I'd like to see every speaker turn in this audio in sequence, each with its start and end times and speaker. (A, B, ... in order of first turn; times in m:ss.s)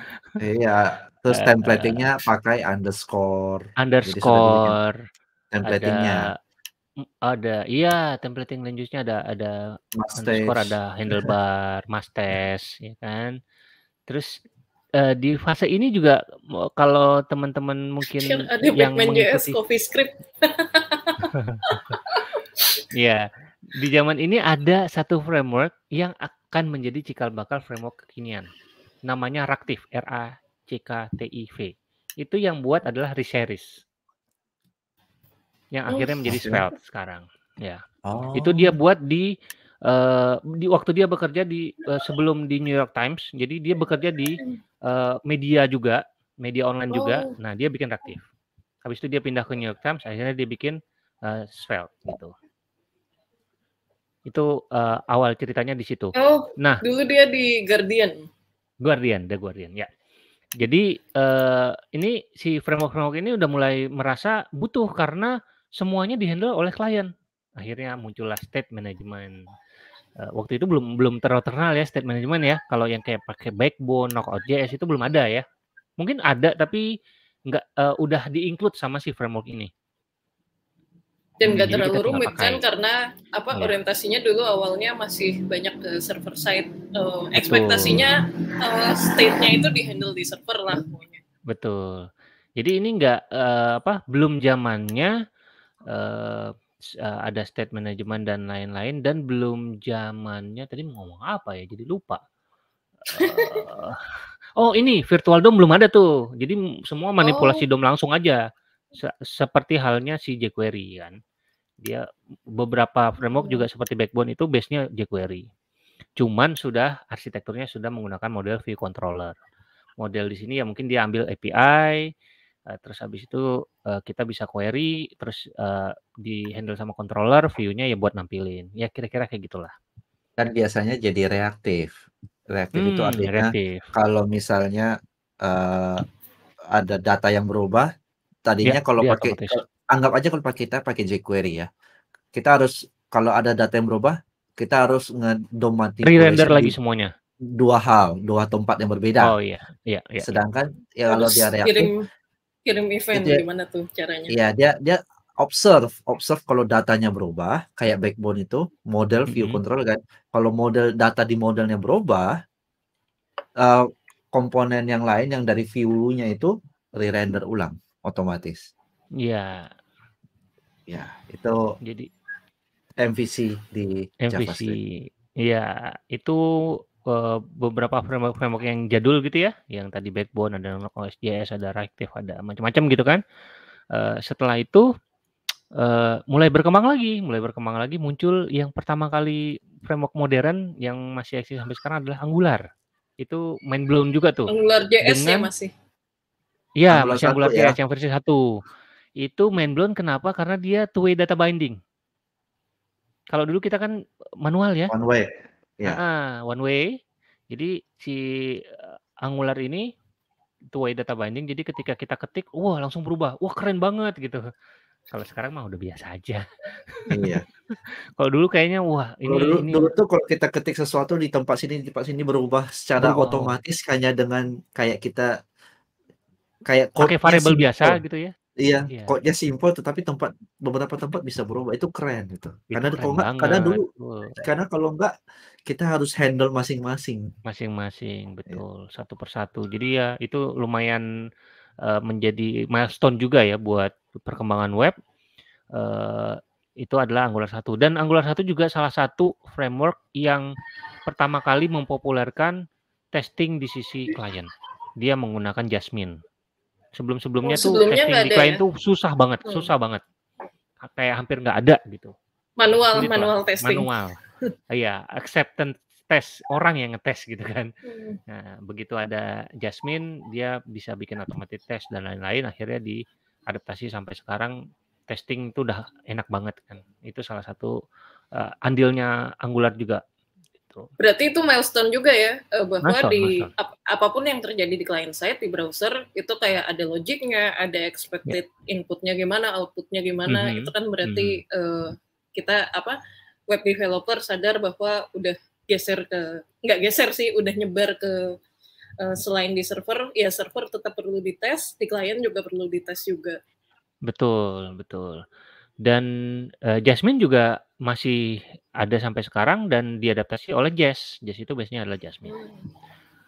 0:00.4-0:04.8 A
0:01.3-0:02.1 B
0:03.8-0:05.0 B
0:05.5-0:06.3 A
0:05.7-0:06.3 B
0:07.2-0:09.6 B
0:10.0-0:11.3 A
0:10.2-0:13.4 B
0:14.1-0:14.4 B
0:15.0-0:19.6 B
0:18.0-0:22.8 C
0:21.3-0:21.9 B
0:22.9-0:28.5 B
0:29.1-0:33.8 B
0:35.7-0:37.8 B
0:35.9-0:36.2 C
0:36.3-0:36.6 A
0:38.0-0:38.8 A
0:38.4-0:39.3 B
0:39.9-0:48.2 B
0:46.9-0:47.3 C
0:48.8-0:52.3 B
0:54.3-0:56.8 B
0:56.2-0:58.3 C
0:58.8-0:59.9 B
1:00.6-1:09.4 B
1:10.2-1:15.4 B
1:16.0-1:16.8 B
1:17.5-1:19.7 B
1:21.4-1:31.2 C
1:21.5-1:22.6 B
1:27.4-1:28.0 B
1:31.5-1:32.1 B
1:32.6-1:35.2 B
1:35.9-1:36.5 B
1:37.0-1:42.2 B
1:43.1-1:44.0 B
1:43.2-1:43.6 C
1:44.6-1:48.4 B
1:47.2-1:47.6 C
1:49.0-1:51.2 B
1:52.6-1:55.5 B
1:53.4-1:53.6 C
1:56.2-1:59.3 B
2:00.0-2:02.1 B
2:02.7-2:09.7 B
2:10.4-2:11.9 A
2:12.5-2:14.9 A
2:12.8-2:13.9 B
2:15.4-2:16.0 A
2:16.7-2:17.9 A
2:18.5-2:21.7 A
2:18.6-2:19.6 B
2:22.3-2:26.7 A
2:26.0-2:27.1 B
2:27.5-2:29.3 A
2:29.2-2:30.3 B
2:30.2-2:31.9 A
2:31.1-2:32.0 C
2:32.7-2:34.4 C
2:33.2-2:33.4 A
2:34.3-2:42.3 A
2:39.3-2:39.6 B
2:43.6-2:48.7 A
2:49.2-2:49.7 B
2:50.9-2:51.6 A
2:51.8-2:52.1 B
2:53.0-2:54.8 A
2:54.2-2:54.8 B
2:55.4-2:56.4 B
2:57.1-3:03.2 B
3:03.9-3:04.9 B
3:05.8-3:12.6 B
3:13.2-3:15.5 B
3:14.5-3:15.7 C
3:16.8-3:18.4 B
3:16.9-3:17.8 A
3:19.2-3:21.8 B
3:23.3-3:23.9 B
3:24.4-3:24.9 B
3:24.9-3:26.0 A
3:25.9-3:26.9 B
3:27.5-3:29.9 B
3:30.7-3:34.4 B
3:35.1-3:37.4 B
3:37.1-3:37.4 A
3:38.2-3:39.9 B
3:39.3-3:45.3 A
3:43.0-3:43.6 B
3:46.7-3:48.0 A
3:47.0-3:48.3 B
3:48.6-3:53.8 A
3:48.9-3:49.2 B
3:52.7-3:54.4 B
3:54.4-3:55.1 A
3:55.7-3:57.3 A
3:57.5-4:01.0 B
4:01.8-4:05.0 B
4:05.8-4:10.4 B
4:11.1-4:12.6 B
4:13.1-4:16.2 B
4:17.0-4:20.0 B
4:17.4-4:18.6 C
4:19.5-4:19.7 C
4:20.8-4:22.1 B
4:22.6-4:23.9 C
4:22.9-4:24.2 B
4:24.7-4:27.7 B
4:27.9-4:28.2 C
4:28.3-4:34.6 B
4:35.1-4:37.8 B
4:38.4-4:40.0 B
4:41.0-4:53.0 C
4:42.8-4:43.5 B
4:50.3-4:51.4 B
4:53.5-4:58.4 C
4:59.0-5:03.4 C
5:04.1-5:05.2 B
5:06.7-5:12.4 B
5:12.3-5:12.7 C